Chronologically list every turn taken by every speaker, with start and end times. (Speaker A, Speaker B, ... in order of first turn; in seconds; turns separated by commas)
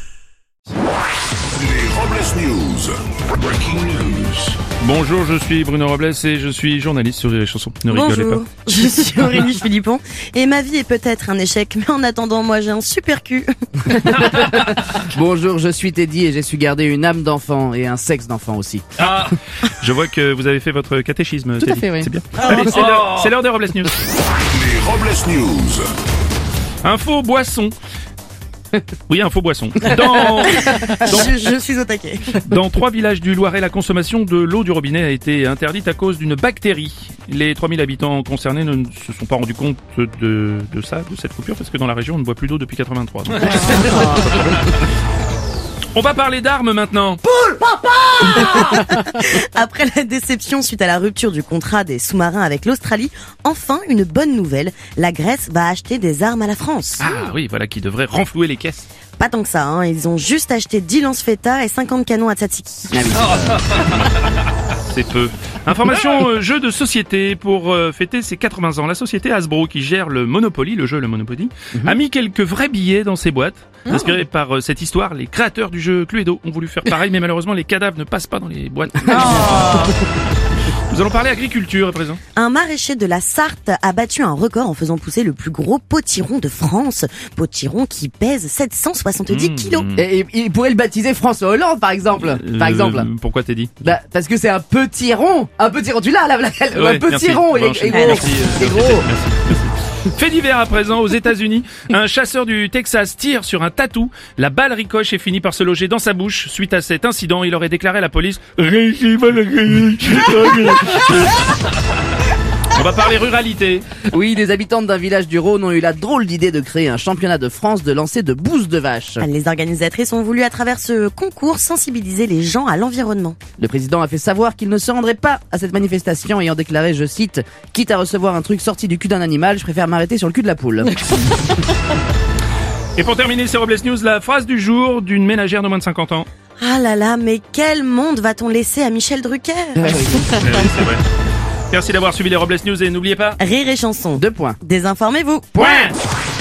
Speaker A: 1.5-4.6, Speaker B: 4.8-8.4, Speaker C: 7.9-14.1, Speaker D: 14.0-19.1, Speaker B: 19.0-23.9, Speaker D: 21.6-22.9, Speaker C: 22.5-22.7, Speaker A: 24.5-25.9, Speaker B: 26.8-27.8, Speaker B: 29.1-31.3, Speaker C: 30.4-32.4, Speaker B: 32.4-44.1, Speaker C: 43.7-44.0, Speaker B: 45.9-47.2, Speaker C: 47.3-57.1, Speaker B: 57.0-58.9, Speaker C: 59.2-63.1, Speaker D: 62.9-63.8, Speaker B: 64.8-80.0, Speaker D: 79.1-79.9, Speaker B: 80.9-82.2, Speaker C: 82.3-89.9, Speaker B: 89.3-90.0, Speaker D: 90.0-93.1, Speaker B: 92.2-93.9, Speaker D: 93.8-99.1, Speaker B: 96.8-111.5, Speaker C: 97.9-98.3, Speaker B: 112.7-113.9, Speaker D: 114.1-119.3, Speaker C: 119.2-123.4, Speaker D: 123.6-131.0, Speaker B: 133.0-136.3, Speaker C: 136.6-140.0, Speaker D: 139.8-140.4, Speaker B: 140.2-141.0, Speaker B: 141.7-143.4, Speaker C: 143.4-145.7, Speaker D: 144.2-144.6, Speaker D: 145.6-145.9